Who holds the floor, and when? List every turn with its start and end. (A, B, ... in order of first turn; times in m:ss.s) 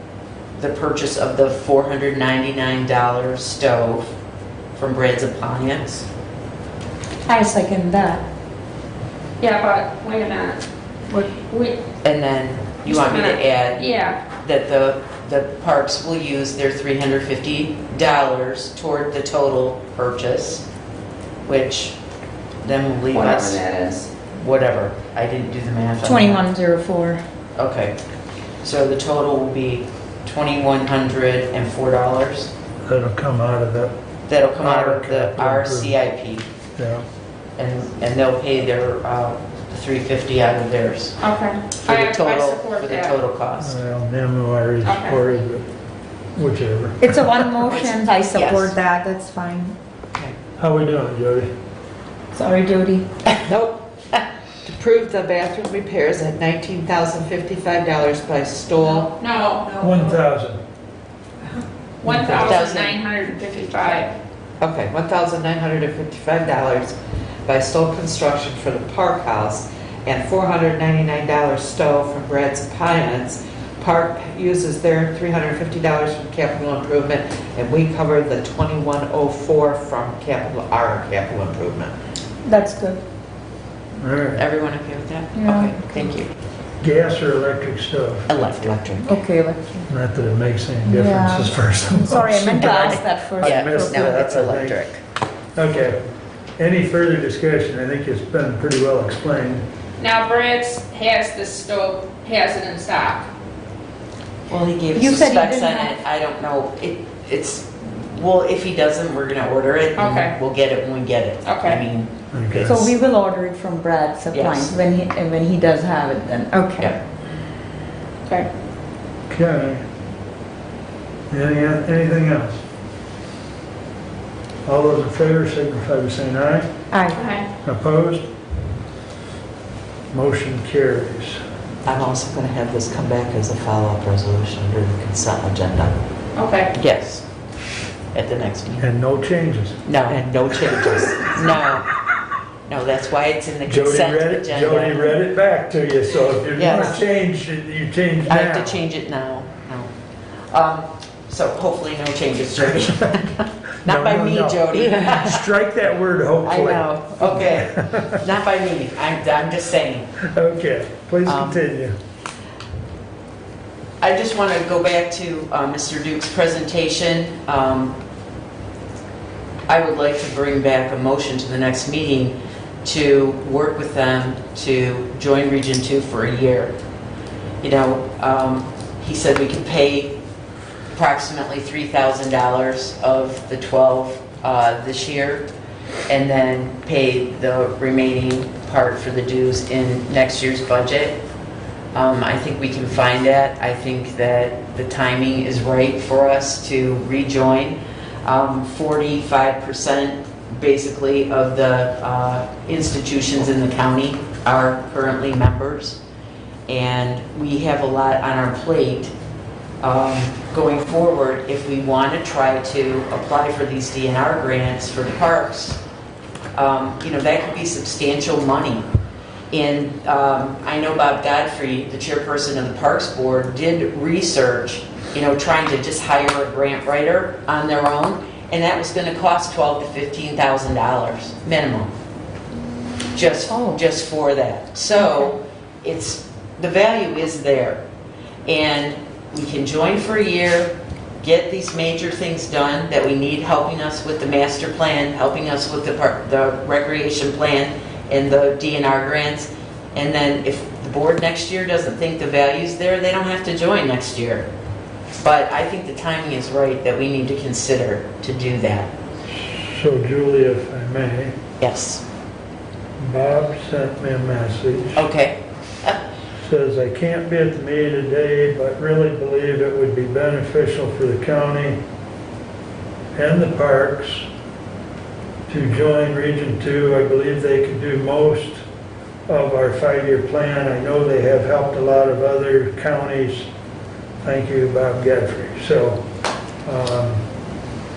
0:00.6-0:04.1 A
0:04.7-0:06.0 A
0:07.3-0:08.2 B
0:09.4-0:10.6 C
0:11.4-0:11.8 C
0:12.0-0:20.6 A
0:12.8-0:14.2 C
0:21.4-0:22.0 A
0:22.6-0:23.6 A
0:23.1-0:24.1 C
0:24.3-0:26.5 A
0:26.0-0:27.2 B
0:27.6-0:28.0 A
0:28.6-0:32.5 A
0:32.8-0:33.9 D
0:34.3-0:36.5 A
0:34.6-0:36.0 D
0:36.7-0:37.0 D
0:37.6-0:41.2 A
0:41.2-0:43.2 C
0:41.8-0:43.8 A
0:43.6-0:45.7 D
0:44.8-0:45.2 C
0:46.3-0:47.2 D
0:47.0-0:49.7 B
0:47.7-0:48.7 A
0:50.6-0:51.5 D
0:52.3-0:53.0 B
0:53.4-0:53.8 E
0:54.6-0:59.2 E
0:59.2-0:59.7 C
0:59.8-1:00.6 D
1:02.0-1:04.1 C
1:02.0-1:02.6 D
1:02.4-1:03.0 A
1:04.6-1:06.9 E
1:07.4-1:21.9 E
1:22.4-1:23.0 B
1:24.0-1:24.4 D
1:24.4-1:26.3 A
1:25.3-1:26.1 B
1:26.8-1:28.3 D
1:28.3-1:29.2 A
1:29.0-1:29.9 B
1:29.9-1:34.8 D
1:30.8-1:34.1 B
1:32.6-1:35.0 A
1:35.5-1:36.0 D
1:36.6-1:39.6 D
1:40.0-1:43.2 C
1:44.5-1:52.1 A
1:44.9-1:45.9 B
1:50.0-1:50.3 C
1:51.4-1:51.8 C
1:52.3-1:52.9 D
1:52.6-1:56.9 B
1:54.3-1:54.7 A
1:59.3-1:59.8 D
2:01.3-2:02.6 D
2:04.6-2:06.7 D
2:06.9-2:07.2 B
2:07.1-2:07.5 C
2:07.6-2:08.2 D
2:10.1-2:11.4 D
2:11.8-2:16.0 E
2:16.3-2:16.7 C
2:16.7-2:17.2 A
2:18.1-2:18.9 A
2:18.8-2:19.8 D
2:19.8-2:20.2 A
2:20.1-2:21.4 E
2:21.3-2:21.9 A
2:22.7-2:25.1 A
2:23.6-2:28.8 D
2:26.6-2:27.0 A
2:26.7-2:27.0 B
2:28.3-2:29.9 A
2:30.5-2:35.5 A
2:33.8-2:38.2 D
2:36.4-2:40.1 A
2:40.3-2:41.9 D
2:41.2-2:41.6 A
2:44.0-2:48.0 A
2:49.7-2:56.7 A
2:57.6-3:00.2 A
3:00.9-3:05.4 A
3:06.1-3:11.2 A
3:11.9-3:26.0 A
3:26.7-3:29.1 A
3:29.8-3:35.8 A
3:36.5-3:38.8 A
3:39.5-3:51.9 A
3:53.1-3:57.8 A
3:53.5-3:53.8 B
3:58.4-4:14.4 A
4:15.2-4:18.9 A
4:19.3-4:21.3 D
4:21.6-4:22.0 A
4:23.0-4:25.0 D
4:24.9-4:26.0 A
4:26.4-4:31.8 D
4:33.1-4:34.2 D
4:35.5-4:38.6 D
4:39.3-4:43.5 D
4:44.2-4:46.0 D
4:46.6-4:47.2 D